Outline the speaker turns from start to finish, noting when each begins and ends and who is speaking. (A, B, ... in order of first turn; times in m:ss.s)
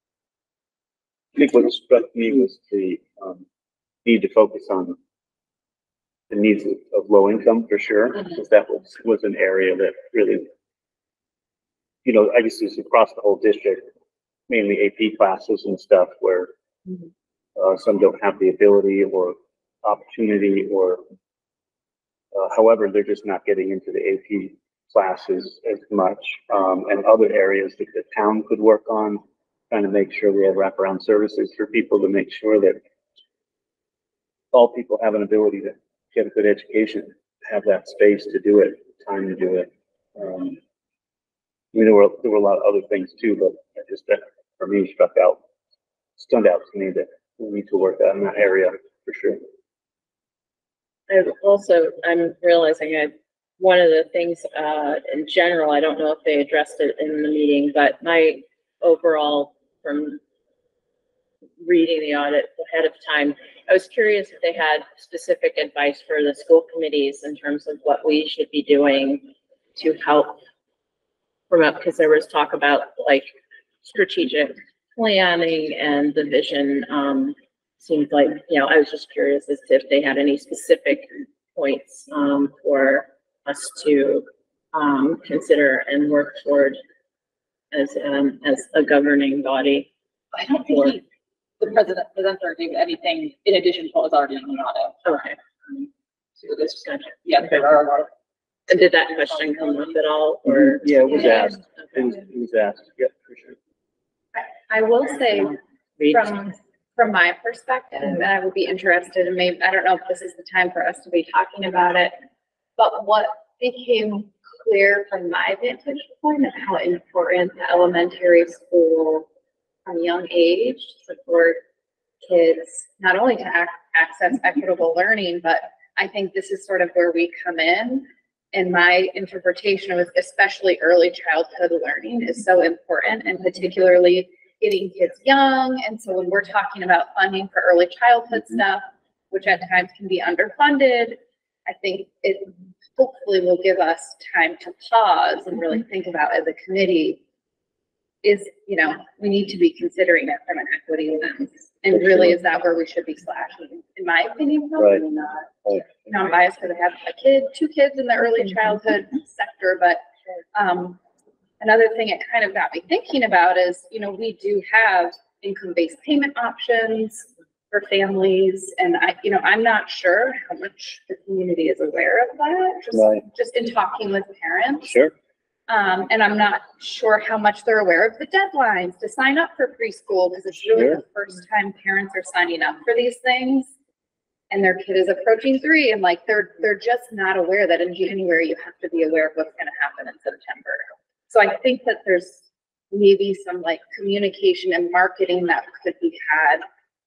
0:01.3-0:03.4 A
0:04.0-0:05.0 A
0:06.3-0:10.5 A
0:12.0-0:13.9 A
0:14.5-0:16.5 A
0:17.6-0:21.0 A
0:22.3-0:32.8 A
0:34.5-0:40.6 A
0:41.7-0:45.4 A
0:46.2-0:49.4 A
0:51.1-1:00.2 B
1:01.6-1:10.4 B
1:11.5-1:13.3 B
1:13.8-1:26.8 B
1:27.7-1:29.9 B
1:30.3-1:31.0 C
1:30.6-1:31.0 B
1:31.6-1:35.0 C
1:35.0-1:35.4 B
1:36.4-1:38.1 C
1:37.0-1:37.7 B
1:38.7-1:42.2 B
1:39.0-1:40.0 C
1:40.4-1:43.5 A
1:44.3-1:45.6 D
1:46.0-1:46.6 B
1:46.1-1:52.2 D
1:52.8-1:59.3 D
1:59.8-2:01.6 D
2:02.2-2:27.2 D
2:28.2-2:35.5 D
2:31.9-2:32.3 A
2:34.8-2:35.0 A
2:36.0-2:41.0 D
2:41.6-2:55.0 D
2:52.9-2:53.2 A
2:54.8-2:55.1 A
2:55.7-3:03.7 D
3:00.7-3:01.0 A
3:04.5-3:16.6 D